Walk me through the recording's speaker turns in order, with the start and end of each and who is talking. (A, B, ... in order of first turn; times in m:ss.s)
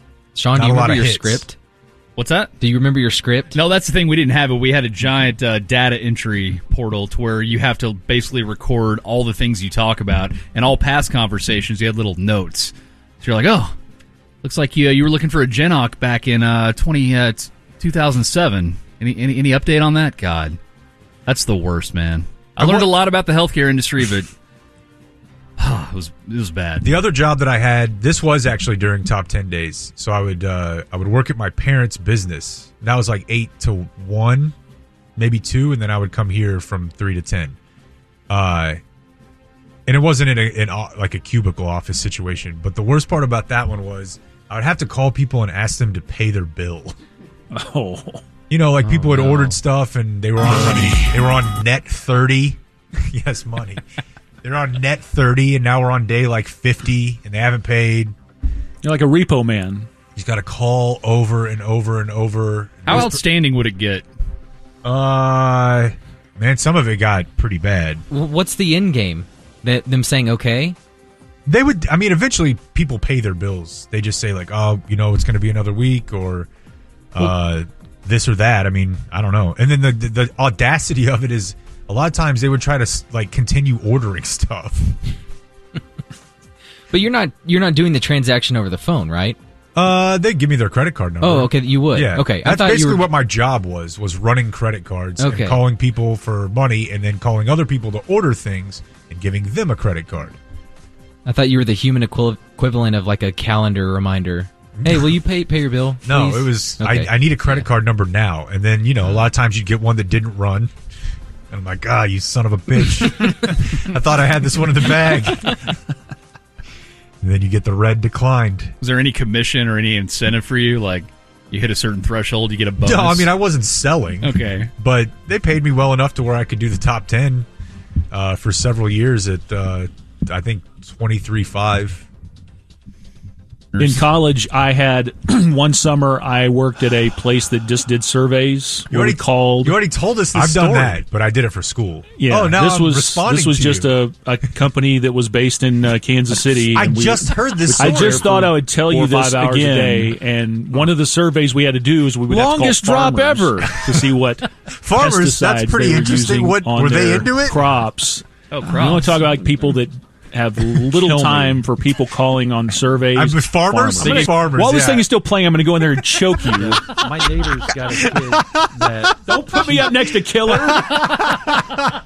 0:00.4-0:01.6 A
0:00.5-0:01.5 B
0:02.2-0:02.5 C
0:02.6-0:03.6 A
0:03.5-0:13.7 C
0:14.4-0:20.6 C
0:21.3-0:24.3 C
0:22.6-0:22.9 B
0:25.6-0:27.0 C
0:26.8-0:34.6 B
0:35.2-0:37.6 B
0:38.3-0:38.8 B
0:39.9-0:47.0 B
0:47.5-0:48.2 D
0:48.5-0:53.8 B
0:48.8-0:49.6 C
0:54.4-0:58.1 B
0:58.8-0:59.9 D
1:00.2-1:03.2 B
1:02.9-1:04.1 C
1:04.8-1:08.0 B
1:08.1-1:10.8 A
1:11.5-1:16.5 B
1:17.1-1:25.0 B
1:26.9-1:29.4 A
1:29.8-1:40.4 B
1:31.2-1:33.1 A
1:35.2-1:35.6 A
1:41.2-1:47.6 A
1:44.8-1:45.1 B
1:46.0-1:50.7 B
1:51.5-1:55.8 B
1:57.2-1:58.7 B
1:58.8-2:03.3 C
2:02.8-2:07.5 B
2:04.2-2:04.7 C
2:08.1-2:12.1 B
2:13.7-2:14.0 C
2:13.8-2:19.8 D
2:18.9-2:24.0 B
2:20.2-2:21.0 E
2:20.5-2:20.9 D
2:22.2-2:47.1 D
2:26.7-2:28.5 B
2:27.7-2:30.1 E
2:32.3-2:33.6 E
2:34.7-2:37.6 B
2:38.5-2:39.2 C
2:41.2-2:41.5 B
2:43.1-2:45.1 B
2:44.0-2:44.4 C
2:46.5-2:49.9 E
2:47.9-2:48.9 B
2:48.8-2:49.1 A
2:49.2-2:51.6 D